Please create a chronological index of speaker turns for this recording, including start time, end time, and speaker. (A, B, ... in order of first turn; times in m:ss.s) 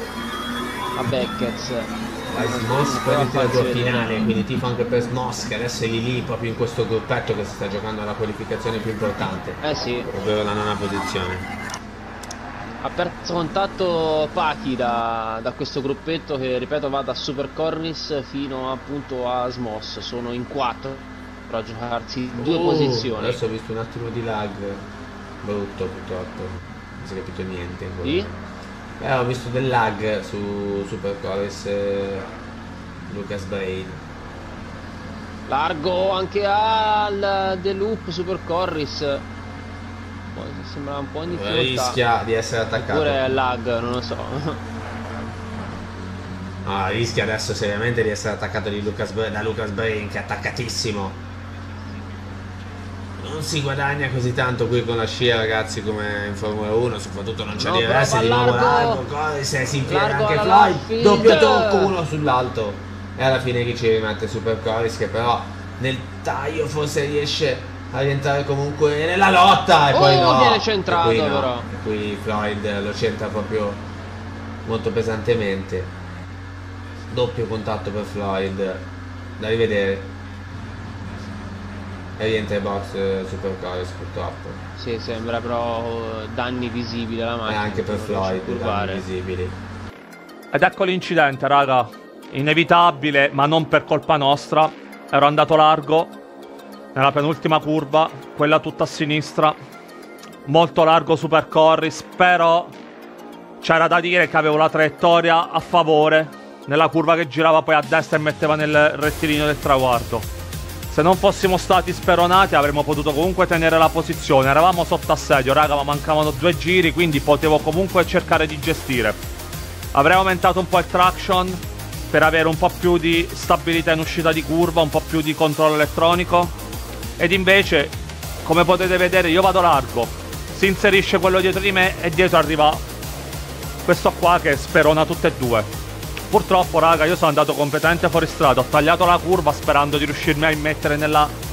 0:01.0-0:04.3 A
0:02.3-0:11.5 B
0:09.6-0:10.1 A
0:12.8-0:23.4 A
0:22.4-0:24.9 B
0:25.4-0:28.4 B
0:28.0-0:28.3 A
0:29.0-0:32.3 B
0:33.1-0:34.0 B
0:35.5-0:39.3 A
0:40.4-0:42.0 A
0:41.3-0:43.2 B
0:42.8-0:44.6 A
0:46.6-0:51.2 B
0:53.2-1:13.9 B
0:57.5-0:59.1 A
0:59.8-1:02.0 A
1:09.9-1:11.7 A
1:14.6-1:16.0 B
1:17.1-1:20.2 B
1:22.2-1:24.6 B
1:24.8-1:29.0 A
1:27.5-1:29.6 B
1:30.5-1:36.1 C
1:37.0-1:39.6 C
1:40.5-1:42.8 C
1:43.6-1:50.3 C
1:50.9-1:59.2 C
1:59.9-2:06.5 C
2:07.2-2:12.8 C
2:13.8-2:15.7 C
2:16.3-2:21.3 C